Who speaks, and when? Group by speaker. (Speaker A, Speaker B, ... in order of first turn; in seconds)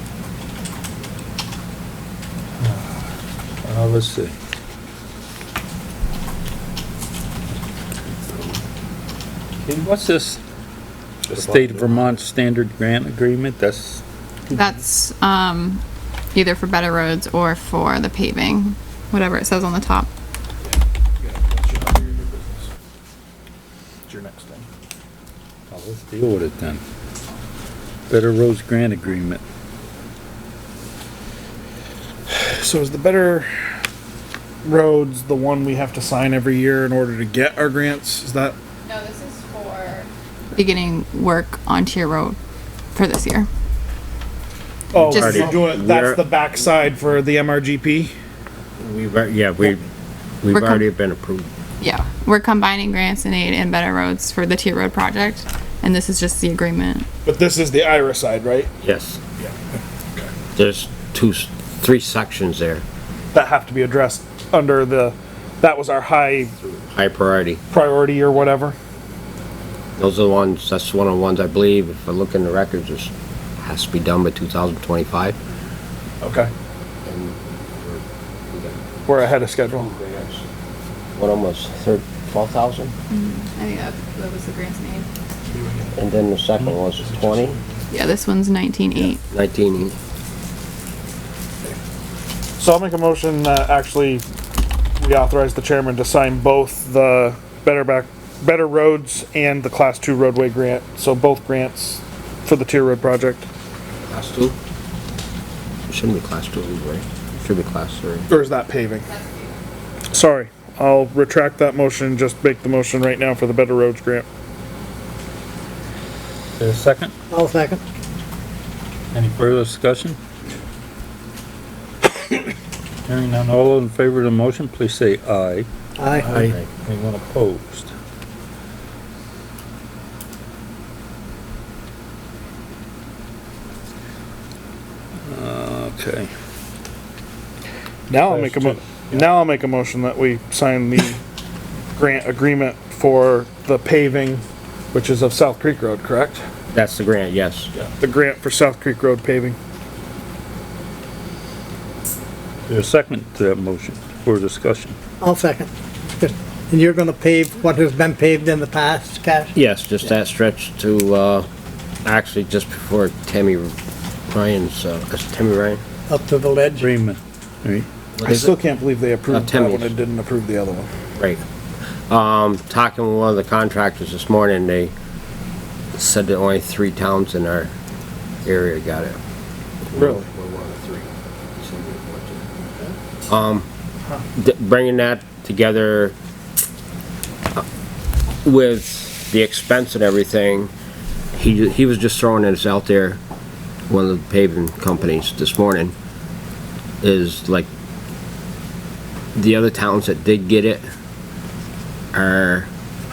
Speaker A: 2.6-3.0, 3.6-4.3, 8.3-8.6, 9.6-10.4, 11.2-14.0, 25.7-26.8, 28.1-29.4, 116.6-117.1, 119.1-120.2, 123.0-125.7, 126.2-127.9, 135.3-136.3, 138.3-139.1, 152.7-154.9, 166.8-167.9
Speaker B: 14.5-15.8, 16.3-20.1, 38.8-42.4, 42.9-43.5, 45.0-45.5, 50.5-50.8, 51.8-57.1, 83.1-85.1, 87.9-89.2, 109.0-109.6
Speaker C: 20.6-22.7, 24.1-24.7, 32.3-33.5, 34.6-38.6, 44.9-48.1, 57.2-58.7, 63.3-66.6, 67.7-68.8, 76.2-76.5, 79.0-79.9, 85.5-85.9, 87.0-87.8, 92.6-94.2, 95.0-103.5, 108.3-109.1, 110.1-114.2, 138.1-141.2, 141.9-146.4, 148.0-149.6, 168.2-170.9, 179.9-180.3
Speaker D: 45.0-46.2, 48.8-49.9, 50.4-51.5, 58.8-59.2, 60.5-62.8, 66.7-67.6, 70.0-75.4, 77.0-80.5, 81.2-82.9, 85.9-87.6, 89.0-90.0, 104.1-104.5, 105.9-108.3, 126.2-126.7, 146.7-147.7, 159.5-161.5, 162.0-163.7, 164.3-165.8, 168.1-168.5, 169.3-169.9, 171.2-171.4, 172.1-174.9, 175.9-177.7, 178.4-179.2, 179.9-182.5, 183.3-183.7, 184.3-186.1, 188.4-190.7, 191.3-193.2, 193.9-195.9, 197.0-197.7, 199.3-200.8, 202.1-202.7
Speaker E: 117.3-117.8, 126.0-126.3, 155.2-159.5, 166.1-166.9